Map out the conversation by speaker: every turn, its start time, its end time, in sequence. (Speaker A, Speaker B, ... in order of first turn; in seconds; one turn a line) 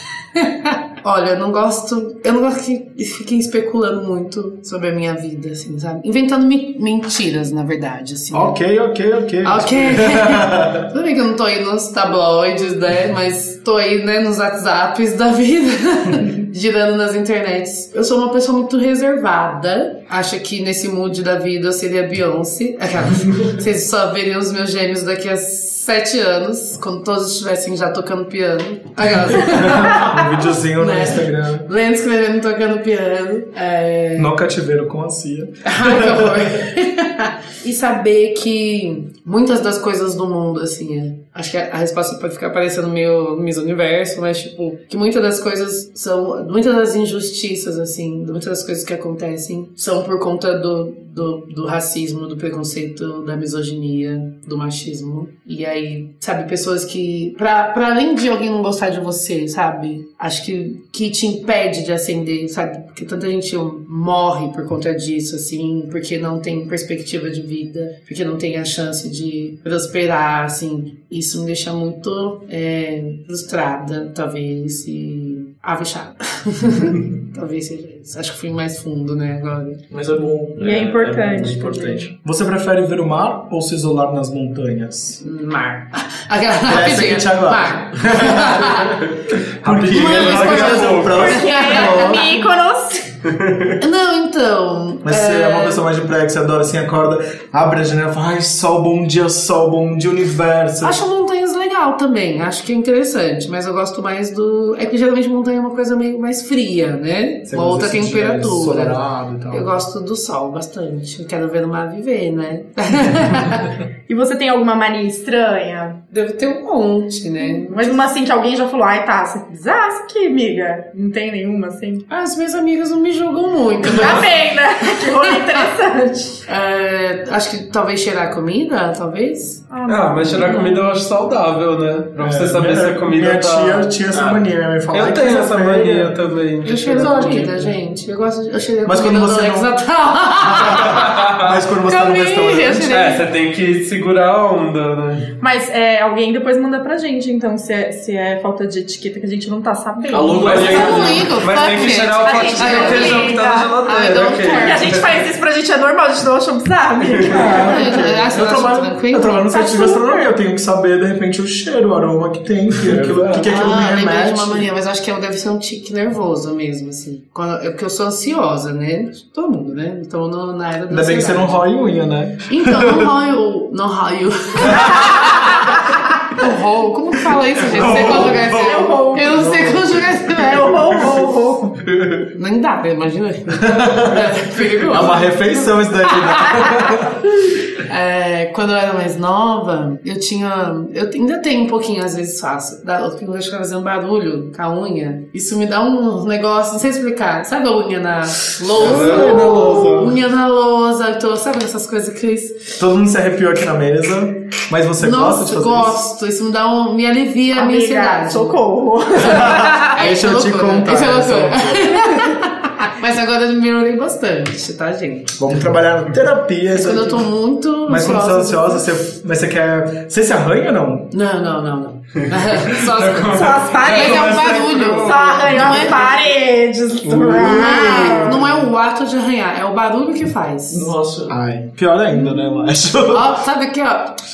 Speaker A: 0.3-8.6
Speaker B: 8.3-10.9
Speaker A: 9.4-30.2
Speaker B: 29.4-31.7
Speaker A: 30.8-34.3
Speaker B: 34.2-36.4
Speaker A: 35.6-79.8
Speaker C: 79.9-82.1
Speaker D: 80.6-82.1
Speaker B: 82.2-85.2
Speaker A: 85.2-89.1
Speaker B: 86.7-89.0
Speaker E: 89.6-91.3
Speaker B: 89.6-92.3
Speaker A: 89.9-92.5
Speaker D: 90.1-93.1
Speaker A: 93.8-95.8
Speaker B: 95.0-101.0
Speaker A: 100.8-109.0
Speaker B: 107.5-109.7
Speaker A: 109.5-113.7
Speaker D: 114.1-116.0
Speaker A: 116.1-118.0
Speaker D: 117.4-122.0
Speaker A: 122.1-124.3
Speaker D: 123.9-126.4
Speaker A: 124.9-125.6
Speaker A: 126.5-129.6
Speaker D: 129.7-130.8
Speaker E: 129.9-134.0
Speaker B: 132.2-136.1
Speaker C: 134.1-134.4
Speaker E: 134.9-137.7
Speaker A: 136.6-141.1
Speaker B: 138.8-139.7
Speaker B: 140.4-142.9
Speaker E: 141.1-141.4
Speaker A: 141.9-143.2
Speaker E: 142.8-145.3
Speaker D: 145.4-151.1
Speaker C: 150.1-151.4
Speaker E: 150.3-155.1
Speaker A: 150.4-155.0
Speaker D: 152.2-153.8
Speaker D: 154.4-158.1
Speaker E: 157.1-157.5
Speaker B: 157.2-164.7
Speaker A: 157.5-159.5
Speaker D: 159.5-160.3
Speaker E: 162.8-163.5
Speaker A: 163.4-171.6
Speaker B: 170.9-173.1
Speaker A: 172.5-175.7
Speaker A: 176.3-181.1
Speaker E: 177.7-178.9
Speaker D: 177.8-181.8
Speaker B: 177.9-178.3
Speaker B: 179.4-179.7
Speaker A: 182.3-185.4
Speaker B: 183.6-187.2
Speaker A: 186.1-186.9
Speaker A: 187.7-202.8
Speaker B: 198.7-200.2
Speaker E: 198.7-199.9
Speaker B: 202.8-206.0
Speaker A: 205.0-208.6
Speaker D: 207.5-209.8
Speaker B: 209.2-212.3
Speaker A: 209.2-215.3
Speaker B: 215.4-221.1
Speaker A: 216.7-218.8
Speaker A: 221.1-226.1
Speaker E: 222.7-225.9
Speaker D: 223.3-228.4
Speaker B: 227.0-228.4
Speaker A: 227.2-230.9
Speaker C: 230.7-231.4
Speaker B: 231.3-233.4
Speaker A: 233.1-234.2